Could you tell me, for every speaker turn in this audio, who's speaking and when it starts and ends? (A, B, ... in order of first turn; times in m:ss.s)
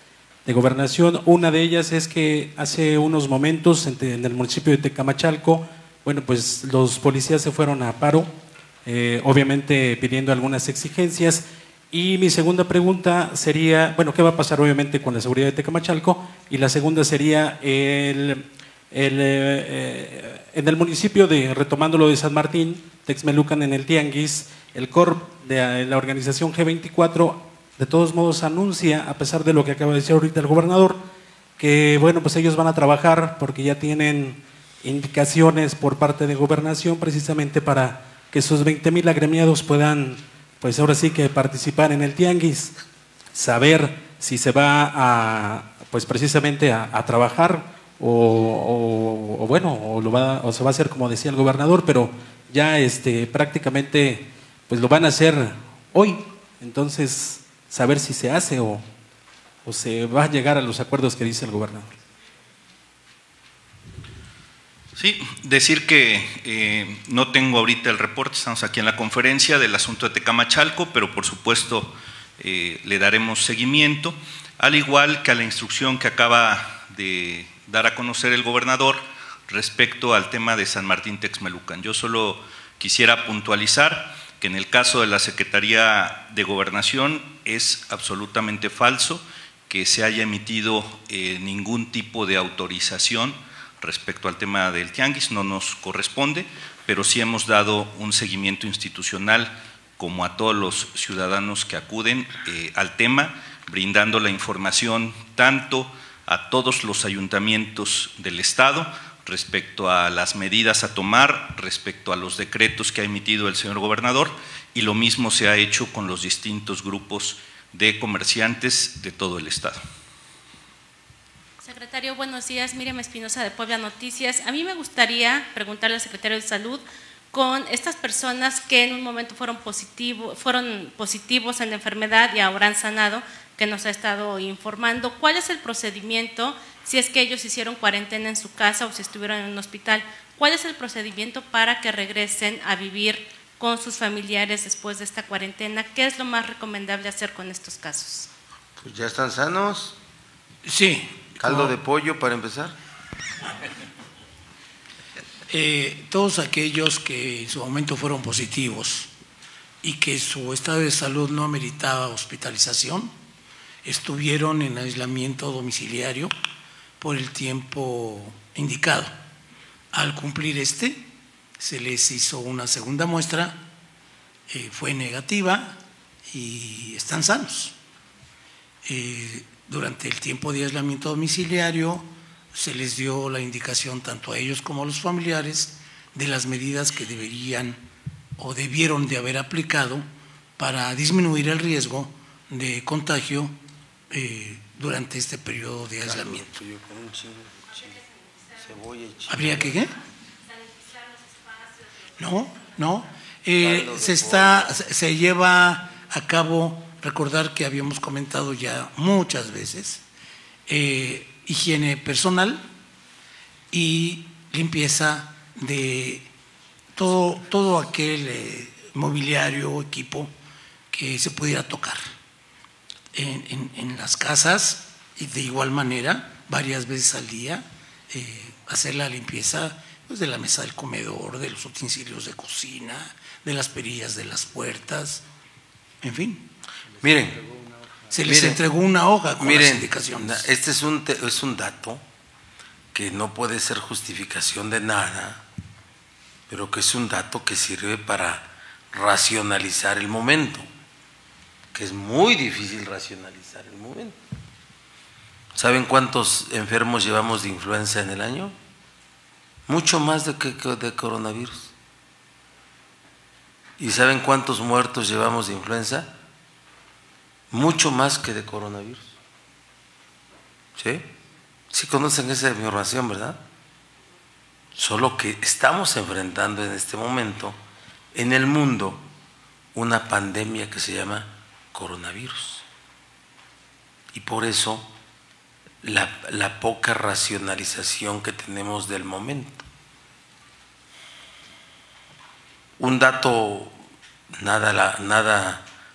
0:00.4-0:08.3 A
0:08.8-0:31.0 A
0:31.6-0:42.8 A
0:43.3-0:58.8 A
0:59.6-1:02.0 A
1:05.0-1:59.8 B
2:01.6-2:28.3 C
2:28.8-2:30.0 D
2:30.6-2:31.7 E
2:31.4-2:32.8 D
2:35.5-2:39.1 E
2:39.8-2:43.1 E
2:43.8-2:46.3 E
2:47.0-2:49.1 E
2:49.9-2:53.6 E
2:54.5-2:57.7 E
2:58.8-3:07.8 E
3:08.4-3:10.1 E
3:10.6-3:13.6 E
3:14.1-3:16.5 E
3:16.0-3:18.0 D
3:18.6-3:19.8 D
3:19.3-3:19.9 E
3:22.2-3:30.0 E
3:23.6-3:24.7 D
3:30.7-3:32.7 E
3:33.7-3:36.3 E
3:37.0-3:40.3 E
3:40.9-3:42.1 E
3:43.1-3:55.2 E
3:56.0-3:56.5 E
3:57.0-3:57.5 D
3:58.1-4:00.5 E
3:58.2-3:58.6 D
3:59.4-4:02.0 D
4:02.9-4:05.4 D
4:06.5-4:10.7 D
4:11.7-4:14.2 D
4:15.6-4:18.6 D
4:19.7-4:21.7 D
4:23.8-4:26.1 D
4:27.5-4:29.2 D
4:30.8-4:31.1 D
4:31.7-4:33.4 D
4:34.8-4:37.6 D
4:38.1-4:39.1 D
4:39.7-4:42.6 D
4:44.1-4:44.9 D
4:45.8-4:49.6 D
4:52.8-4:53.8 D
4:54.4-4:55.7 D